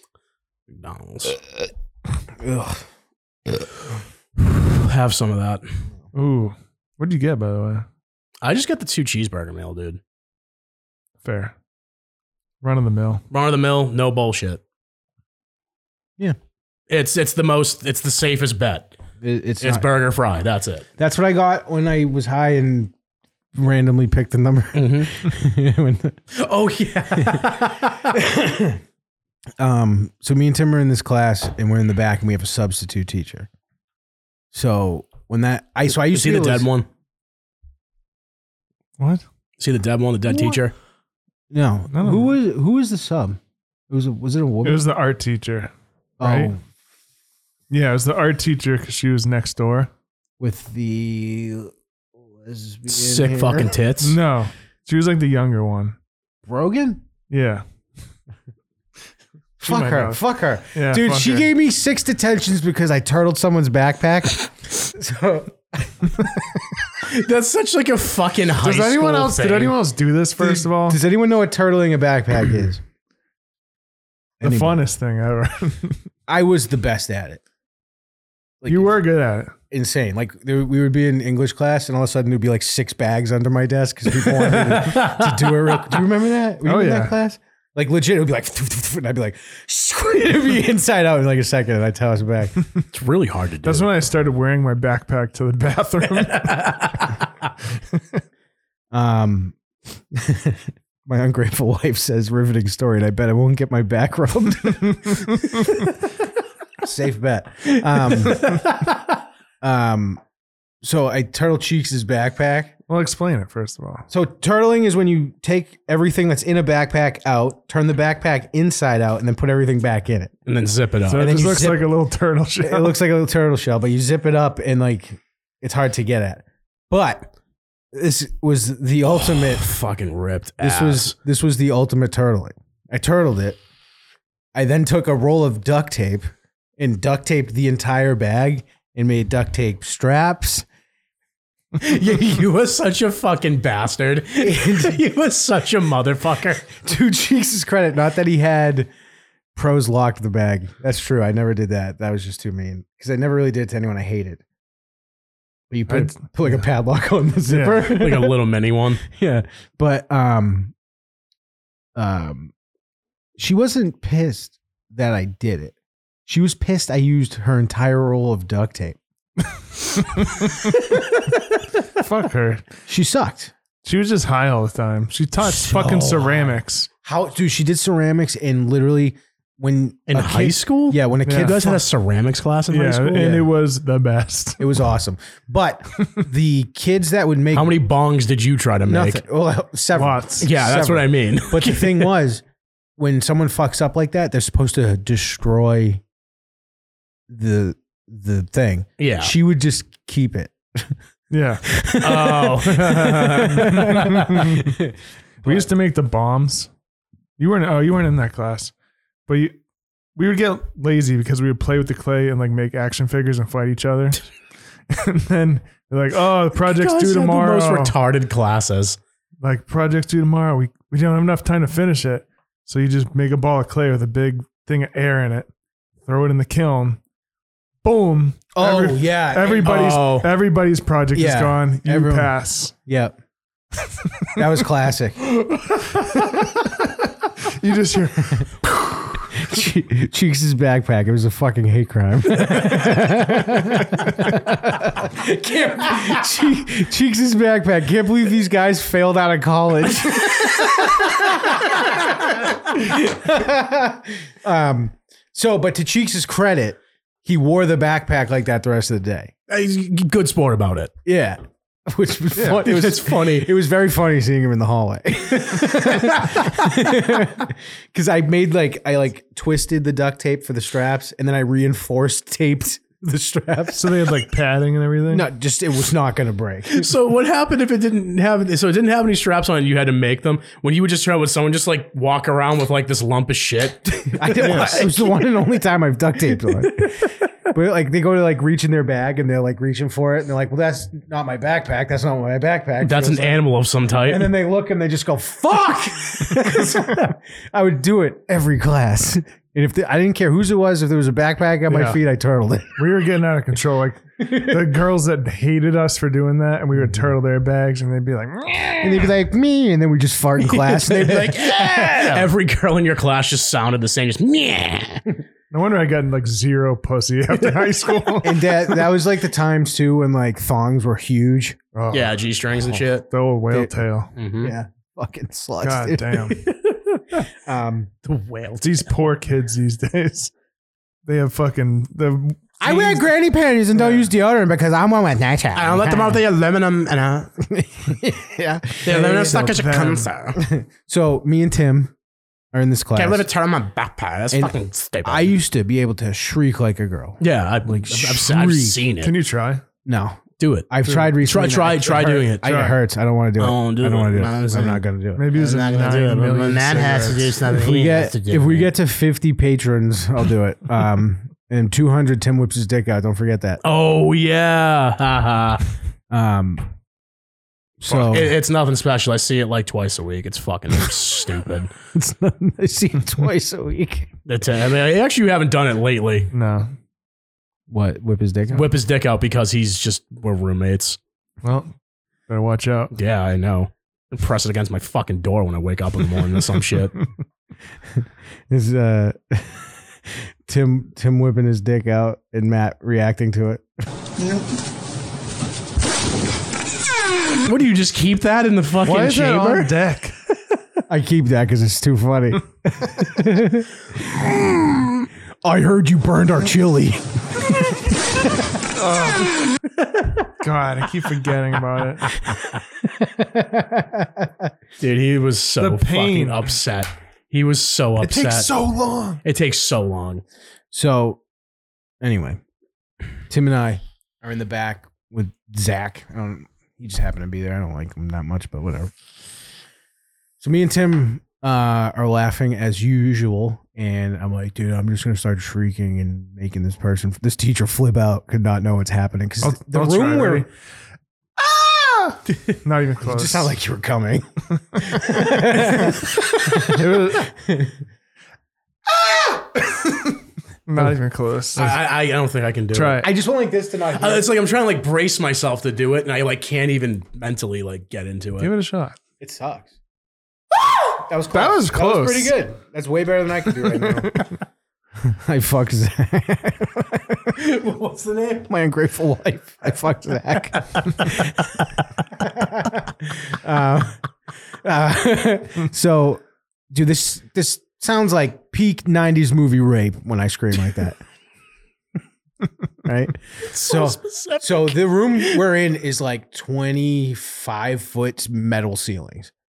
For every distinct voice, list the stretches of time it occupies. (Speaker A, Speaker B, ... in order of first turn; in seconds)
Speaker A: 0.7-1.4, 4.4-5.8, 8.4-10.0, 13.3-14.6, 16.9-18.9, 19.6-20.9, 24.7-25.1, 26.3-28.1, 35.9-36.9, 39.6-40.7, 52.9-54.1, 67.0-69.8, 84.7-85.5, 92.9-93.9, 96.3-97.1, 120.5-121.4, 129.2-131.1, 141.8-146.7, 157.8-159.0, 180.1-183.3, 187.5-189.2, 190.4-192.1, 199.0-199.3, 202.0-204.3, 216.6-219.0, 229.6-230.3, 259.5-260.9, 262.5-263.5, 276.7-285.2, 292.8-294.3, 310.6-315.0, 321.9-323.0, 324.1-324.5, 328.0-328.9, 335.5-337.3, 338.8-340.4, 342.9-345.3, 347.2-349.1, 350.4-350.7, 351.2-352.6, 353.4-358.7, 363.6-365.6, 367.9-371.7, 374.2-376.3, 378.5-381.0, 382.9-387.0, 397.4-399.7, 414.8-418.5, 419.2-420.2, 451.5-453.1, 454.0-458.5, 483.4-485.3
Speaker B: 2.4-2.9, 19.2-19.9, 21.0-22.9, 23.5-26.2, 27.1-28.8, 29.6-33.5, 34.5-36.7, 41.5-43.4, 43.9-44.9, 46.2-46.6, 50.4-51.7, 52.3-53.7, 56.4-57.0, 59.6-66.1, 70.4-72.8, 74.4-74.8, 76.3-77.4, 78.6-79.0, 79.7-92.5, 98.9-99.6, 100.1-105.9, 106.8-109.0, 109.6-110.2, 110.8-112.7, 114.1-120.3, 121.1-121.9, 122.6-127.3, 127.9-129.7, 130.6-133.6, 134.5-136.3, 136.8-140.7, 141.8-142.3, 144.4-145.0, 146.7-148.9, 149.5-154.4, 155.7-158.4, 159.1-160.7, 161.9-162.5, 163.4-165.7, 166.2-169.0, 172.9-173.5, 175.4-181.8, 183.1-183.5, 184.6-187.8, 188.8-192.4, 193.0-196.0, 197.3-200.9, 201.7-205.7, 228.5-229.7, 231.1-233.2, 234.3-235.3, 238.3-259.3, 261.0-274.2, 275.1-276.9, 283.9-293.4, 294.1-302.8, 304.2-304.7, 306.7-307.1, 308.8-312.3, 318.2-321.6, 324.4-326.4, 327.3-327.9, 332.6-336.2, 337.4-339.5, 340.4-341.9, 342.5-343.2, 344.3-348.8, 349.8-355.3, 357.5-363.6, 366.1-366.6, 367.8-368.3, 371.9-374.1, 377.7-378.7, 387.9-393.6, 400.9-408.5, 412.8-414.5, 420.7-421.2, 422.0-422.4, 423.3-428.9, 430.4-440.5, 443.0-447.8, 448.9-450.1, 453.0-454.3, 459.2-459.7, 460.8-464.2, 465.0-471.6, 472.2-474.0, 474.6-481.0, 482.8-489.3
Speaker C: 6.1-7.8, 11.2-11.5, 12.6-13.2, 39.0-39.2, 41.9-42.3, 44.6-46.5, 47.7-49.9, 54.0-56.0, 57.3-57.6, 59.6-60.2, 60.7-61.5, 68.6-71.0, 74.4-76.0, 78.7-79.5, 86.6-87.2, 93.6-96.9, 112.9-114.0, 121.1-123.0, 155.9-156.6, 157.5-157.9, 170.0-170.3, 172.0-172.7, 173.8-176.9, 181.2-181.7, 182.7-184.6, 189.9-190.5, 201.3-201.7, 202.8-204.7, 205.4-206.7, 207.4-208.7, 209.3-209.5, 210.2-214.2, 214.9-217.9, 219.4-225.5, 226.1-227.0, 227.8-232.7, 237.4-238.5, 273.7-275.3, 284.4-284.8, 301.7-302.0, 302.8-309.1, 315.5-318.5, 321.7-322.2, 323.0-324.1, 325.6-326.4, 328.6-330.3, 331.0-333.0, 333.7-334.1, 339.3-340.1, 349.0-349.6, 350.8-352.8, 355.2-357.4, 376.3-376.7, 381.4-381.7, 382.3-382.9, 398.8-400.1, 408.8-409.3, 410.4-412.2, 415.6-416.5, 418.0-419.2, 439.4-440.5, 442.6-443.5, 445.5-447.3, 450.7-451.8, 452.7-453.1, 458.4-459.0, 461.3-462.4, 463.8-464.2